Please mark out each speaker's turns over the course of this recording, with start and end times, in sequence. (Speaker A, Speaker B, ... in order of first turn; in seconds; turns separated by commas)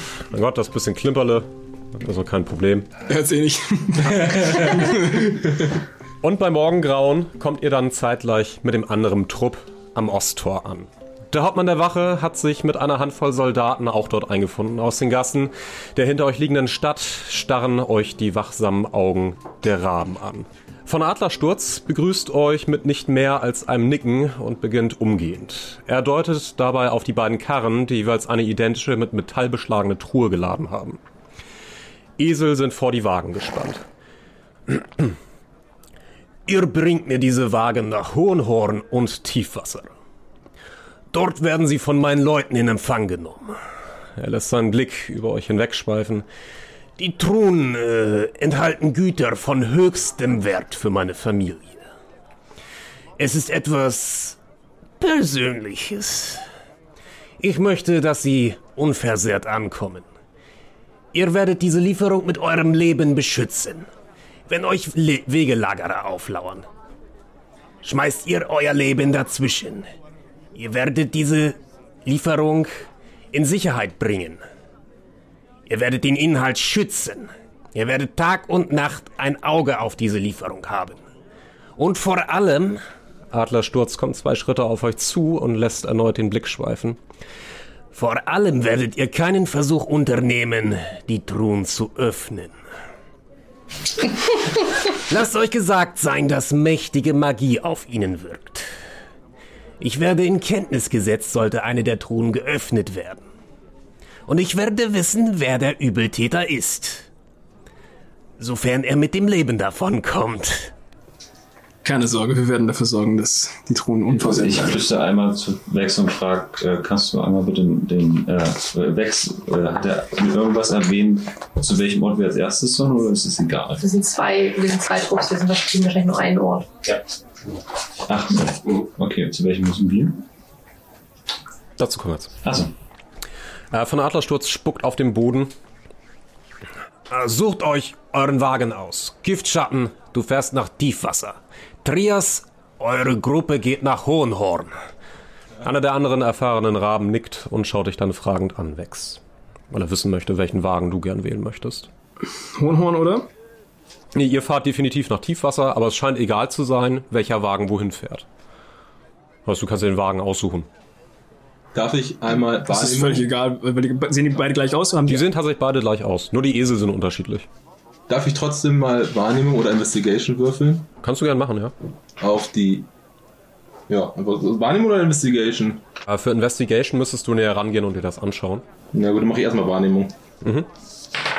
Speaker A: 0.3-2.9, Speaker B: 3.1-5.4, Speaker C: 4.1-5.0, Speaker A: 6.2-31.0, Speaker A: 32.2-33.8, Speaker A: 34.7-35.1, Speaker A: 36.5-39.9, Speaker A: 41.1-43.6, Speaker A: 44.2-46.2, Speaker A: 47.0-51.8, Speaker A: 53.2-54.4, Speaker A: 55.0-56.4, Speaker A: 57.4-60.0, Speaker A: 61.1-63.9, Speaker A: 64.5-66.7, Speaker A: 67.8-69.9, Speaker A: 70.5-74.4, Speaker A: 75.7-81.0, Speaker A: 81.8-87.0, Speaker A: 87.9-92.5, Speaker A: 95.0-98.7, Speaker A: 99.8-103.2, Speaker A: 104.3-107.1, Speaker A: 108.4-110.7, Speaker B: 111.8-114.8, Speaker D: 114.1-123.8, Speaker E: 123.8-126.7, Speaker D: 128.1-130.2, Speaker A: 131.8-132.3, Speaker D: 132.4-132.7, Speaker A: 133.7-135.5, Speaker A: 137.1-144.7, Speaker A: 145.6-149.2, Speaker A: 149.7-151.9, Speaker B: 152.5-153.3, Speaker A: 154.1-158.2, Speaker A: 159.4-160.7, Speaker C: 161.7-163.3, Speaker B: 162.7-165.3, Speaker A: 165.1-167.5, Speaker C: 168.1-170.9, Speaker A: 171.0-171.7, Speaker C: 172.2-172.9, Speaker C: 173.9-175.8, Speaker A: 176.1-178.6, Speaker C: 178.9-180.1, Speaker A: 180.4-180.7